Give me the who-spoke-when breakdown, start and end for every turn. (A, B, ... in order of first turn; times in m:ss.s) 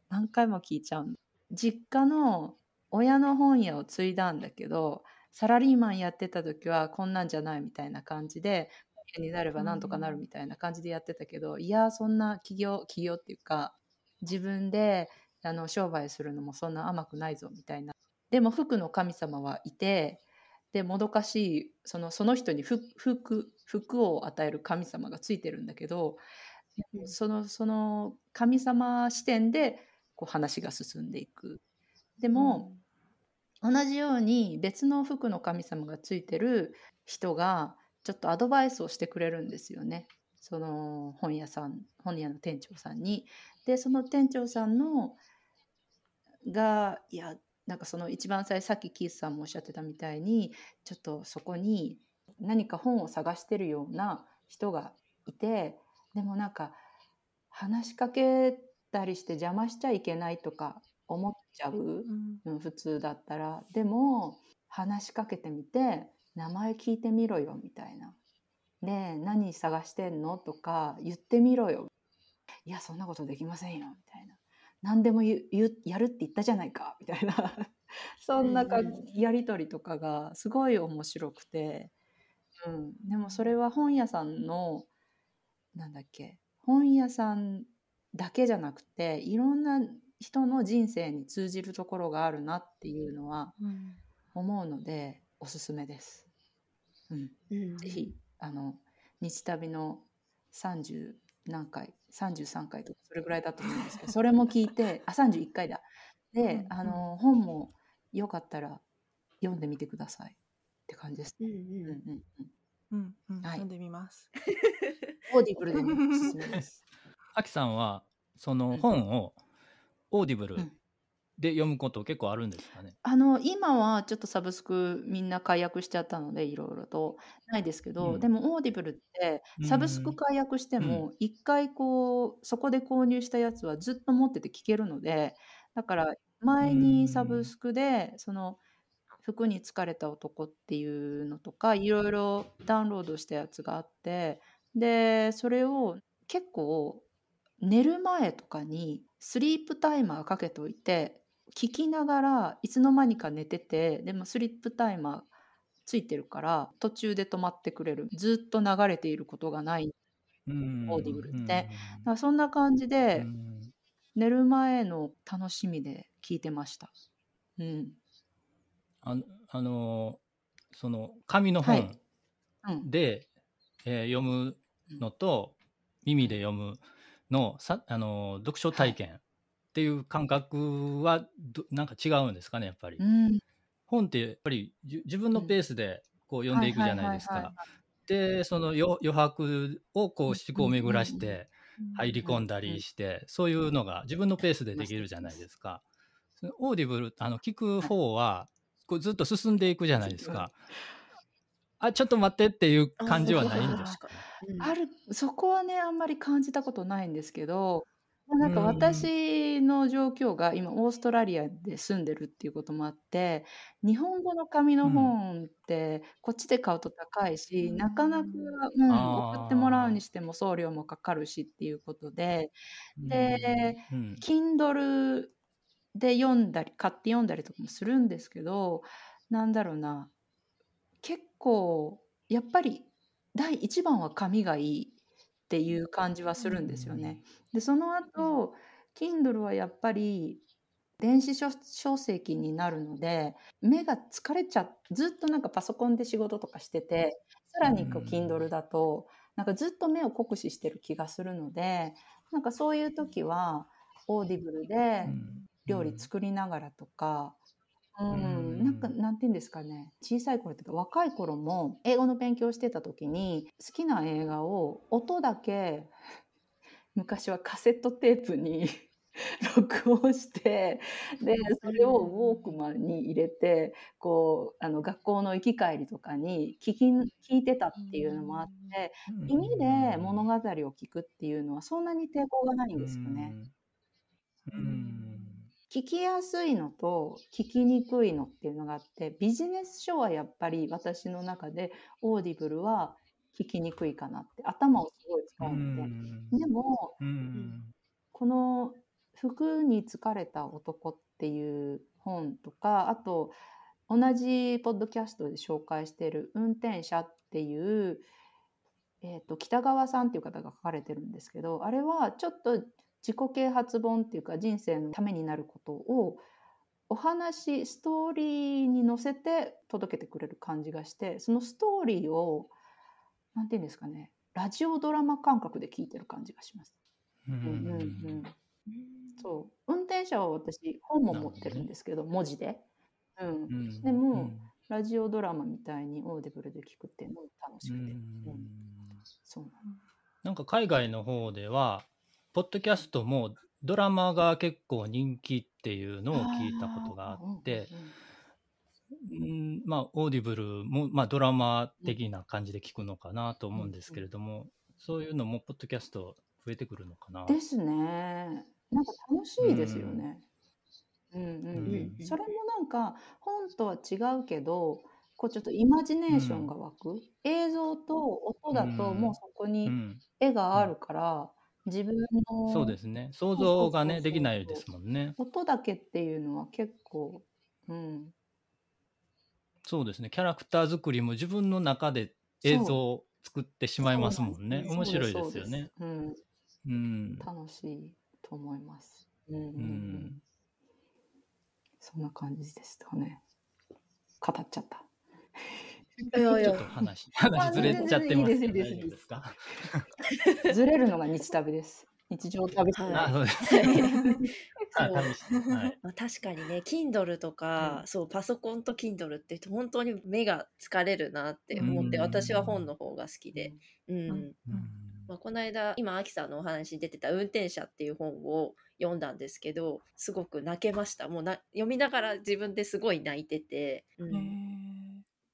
0:00.1-0:26.2 A
0:09.6-0:10.3 B
0:26.8-0:31.6 A
0:32.2-0:32.7 A
0:32.3-0:32.8 B
0:33.6-0:45.2 A
0:46.4-0:56.8 A
0:57.5-1:08.2 A
1:02.1-1:02.4 B
1:08.8-1:11.9 A
1:12.7-1:21.9 A
1:18.4-1:19.0 C
1:22.6-1:24.9 A
1:25.7-1:33.6 A
1:33.6-1:34.0 B
1:34.3-1:36.3 A
1:37.1-1:48.8 A
1:37.5-1:38.1 C
1:46.4-1:47.0 B
1:49.4-1:52.5 A
1:51.4-1:52.0 C
1:52.9-1:54.3 B
1:54.5-1:54.9 C
1:55.3-1:56.8 A
1:55.7-1:56.4 B
1:57.4-1:59.4 D
2:00.1-2:00.7 D
2:01.4-2:03.0 D
2:03.0-2:18.6 A
2:08.0-2:08.3 D
2:09.6-2:10.2 D
2:10.8-2:11.1 D
2:16.6-2:17.5 D
2:19.2-2:27.1 A
2:27.6-2:35.3 A
2:35.8-2:40.0 A
2:40.5-2:42.1 D
2:40.9-2:43.3 A
2:43.1-2:43.7 D
2:44.2-2:46.9 A
2:47.6-2:48.0 A
2:49.0-2:50.2 D
2:50.7-2:52.0 D
2:51.6-2:52.0 A
2:52.8-2:53.3 D
2:53.9-2:59.2 D
2:58.7-2:59.0 A
2:59.7-3:03.0 D
3:03.0-3:03.4 A
3:03.9-3:15.8 D
3:06.5-3:07.7 A
3:10.3-3:11.4 A
3:11.8-3:12.1 B
3:12.2-3:12.8 A
3:14.7-3:15.4 A
3:16.4-3:20.6 D
3:20.0-3:20.5 A
3:21.8-3:24.2 D
3:23.0-3:24.8 C
3:23.1-3:24.0 A
3:24.6-3:42.5 A
3:28.4-3:29.1 D
3:34.8-3:35.1 D
3:37.6-3:38.6 B
3:38.9-3:40.0 D
3:43.0-3:44.2 D
3:43.1-3:45.3 A
3:45.9-3:50.1 A
3:51.0-3:55.0 A
3:55.5-4:00.4 A
3:56.6-3:57.2 D
4:01.0-4:17.4 A
4:07.6-4:08.5 D
4:15.0-4:16.1 D
4:18.0-4:26.0 A
4:18.1-4:18.9 D
4:26.9-4:43.4 A
4:31.6-4:32.1 C
4:37.7-4:38.8 B
4:39.1-4:40.2 D
4:42.8-4:43.5 D
4:44.5-4:45.5 D
4:44.5-4:45.4 B
4:45.7-4:57.0 A
4:55.4-4:56.4 D
4:57.0-4:57.7 D
4:58.1-5:03.4 A
5:03.9-5:08.1 A
5:09.0-5:16.3 A
5:16.9-5:22.5 A
5:23.3-5:26.7 A
5:27.3-5:28.2 D
5:27.4-5:28.4 A
5:28.7-5:29.4 C
5:29.2-5:32.6 A
5:31.1-5:31.7 D
5:33.2-5:38.5 A
5:33.5-5:34.5 D
5:37.6-5:39.0 D
5:39.2-5:39.6 A
5:40.2-5:47.8 D
5:46.1-5:48.0 A
5:49.0-5:57.4 D
5:53.6-5:54.1 A
5:57.3-6:00.2 A
5:59.4-6:00.0 D
6:01.1-6:12.8 A
6:01.5-6:02.0 D
6:01.7-6:02.2 C
6:06.1-6:06.5 D
6:08.5-6:10.0 D
6:12.5-6:15.2 D
6:13.4-6:14.6 A
6:15.2-6:18.1 A
6:19.6-6:25.7 D
6:22.4-6:22.8 A
6:23.8-6:26.2 A
6:24.6-6:25.0 C
6:26.6-6:27.3 D
6:27.2-6:30.1 A
6:29.6-6:30.2 D
6:31.8-6:33.2 A
6:34.2-6:36.6 A
6:36.1-6:36.6 C
6:36.4-6:39.8 D
6:37.3-6:39.0 A
6:37.6-6:37.9 C
6:40.5-6:43.2 A
6:42.7-6:44.0 C
6:42.9-6:43.8 D
6:43.8-6:44.2 B
6:44.7-6:45.1 C
6:44.7-6:45.8 D
6:45.8-6:54.4 C
6:47.6-6:47.8 A
6:51.5-6:51.9 B
6:51.6-6:52.7 D
6:53.3-6:53.6 A
6:54.1-6:54.7 B
6:54.5-6:55.1 D
6:55.1-7:04.4 C
7:04.1-7:05.0 B